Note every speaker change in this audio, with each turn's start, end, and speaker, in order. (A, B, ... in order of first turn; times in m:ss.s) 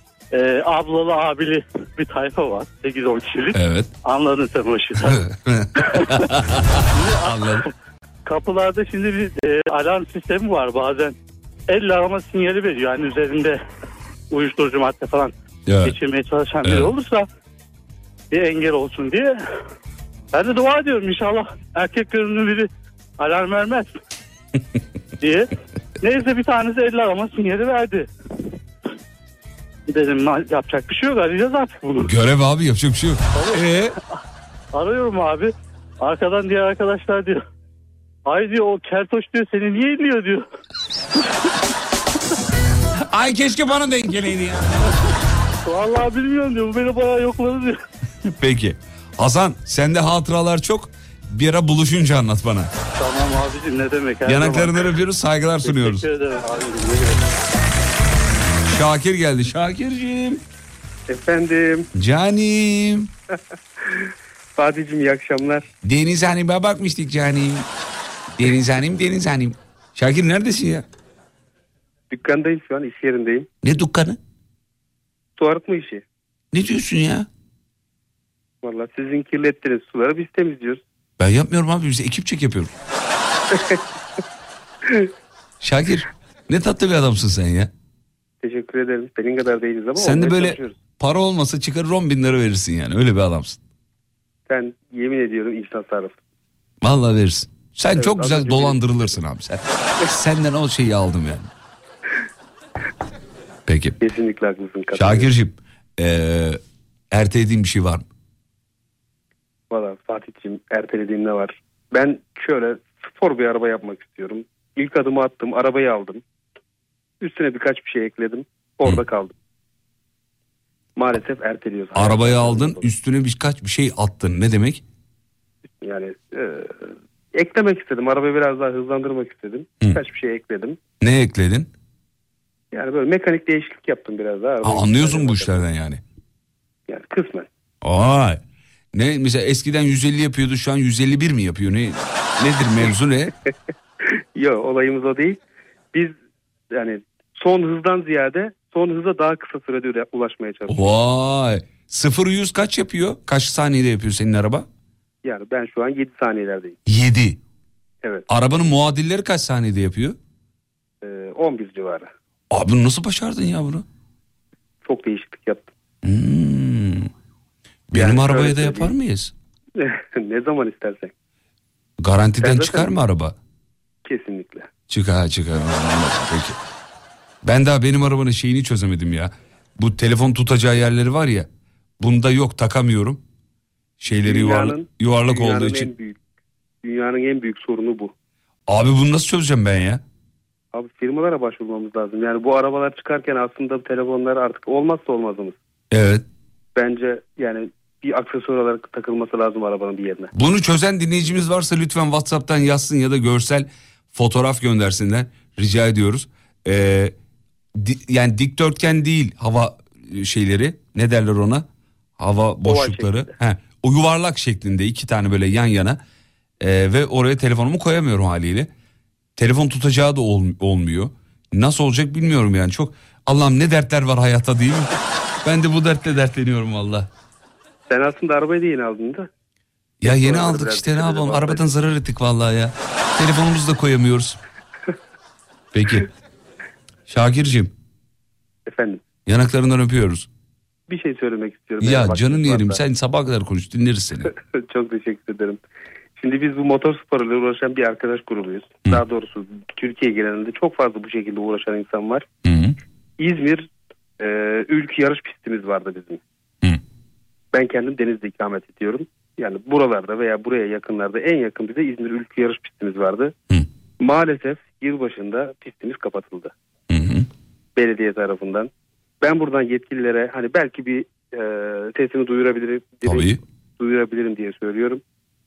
0:00.3-0:05.2 A
0:03.5-0:03.9 B
0:05.0-0:07.7 B
0:05.8-0:06.1 A
0:06.9-0:07.7 A
0:08.2-0:11.2 A
0:11.7-0:13.6 A
0:14.3-0:15.3 A
0:15.7-0:16.0 B
0:15.8-0:17.3 A
0:16.6-0:16.9 B
0:18.3-0:19.3 A
0:20.3-0:22.7 A
0:23.2-0:23.9 A
0:25.2-0:25.5 A
0:26.0-0:28.1 A
0:29.9-0:32.1 A
0:32.0-0:34.0 B
0:33.4-0:33.6 A
0:34.7-0:37.4 A
0:38.3-0:40.4 A
0:43.0-0:44.8 B
0:45.6-0:47.8 A
0:48.4-0:52.7 B
0:53.0-0:54.9 A
0:54.3-0:56.1 B
0:55.6-0:57.3 A
0:58.7-1:00.4 B
1:01.1-1:01.9 C
1:02.0-1:03.1 B
1:03.8-1:05.7 C
1:05.8-1:07.7 B
1:08.4-1:10.8 B
1:12.1-1:13.5 C
1:13.6-1:14.2 B
1:15.4-1:16.0 C
1:16.5-1:17.3 B
1:18.6-1:20.8 C
1:21.2-1:22.7 B
1:23.5-1:23.8 C
1:24.8-1:25.1 C
1:25.6-1:27.7 B
1:28.4-1:30.8 C
1:30.0-1:33.6 B
1:34.5-1:36.2 C
1:36.8-1:41.5 B
1:38.0-1:38.8 C
1:43.7-1:44.0 B
1:44.0-1:45.3 C
1:44.9-1:46.6 B
1:47.1-1:48.0 B
1:49.7-1:56.2 C
1:57.2-1:59.3 C
2:01.0-2:02.9 C
2:01.9-2:04.8 B
2:05.8-2:10.8 C
2:11.0-2:11.7 B
2:12.7-2:15.6 C
2:14.6-2:16.0 B
2:16.9-2:17.5 C
2:17.8-2:18.4 B
2:18.9-2:23.3 B
2:24.1-2:25.4 C
2:26.7-2:30.8 C
2:30.7-2:34.7 B
2:35.2-2:36.8 C
2:36.9-2:37.4 B
2:38.3-2:40.2 B
2:41.0-2:42.1 C
2:42.5-2:43.8 B
2:44.8-2:45.7 C
2:46.0-2:47.1 B
2:47.9-2:49.3 B
2:47.9-2:48.9 C
2:49.8-2:51.1 C
2:52.0-2:53.4 B
2:52.4-2:52.9 C
2:54.0-2:54.7 C
2:54.9-2:56.6 B
2:57.4-3:01.5 B
3:02.0-3:03.2 B
3:04.0-3:05.9 B
3:04.2-3:06.2 C
3:06.8-3:08.1 C
3:08.7-3:10.0 B
3:10.7-3:15.6 C
3:15.9-3:16.2 B
3:16.8-3:20.3 C
3:20.4-3:27.1 B
3:27.8-3:31.6 B
3:32.2-3:36.0 B
3:32.6-3:33.3 C
3:36.6-3:38.7 B
3:39.4-3:44.9 B
3:45.4-3:47.1 B
3:47.9-3:49.3 C
3:50.0-3:54.4 B
3:50.0-3:51.6 C
3:55.7-3:56.1 B
3:57.1-3:57.7 B
3:58.7-3:59.1 C
3:59.3-4:00.3 B
4:00.9-4:02.8 C
4:01.8-4:04.3 B
4:04.3-4:05.6 C
4:06.2-4:12.3 C
4:12.4-4:12.8 B
4:13.2-4:13.7 C
4:14.2-4:16.2 C
4:17.5-4:23.3 C
4:24.0-4:26.5 C
4:26.9-4:27.3 B
4:27.8-4:35.0 C
4:33.0-4:33.4 B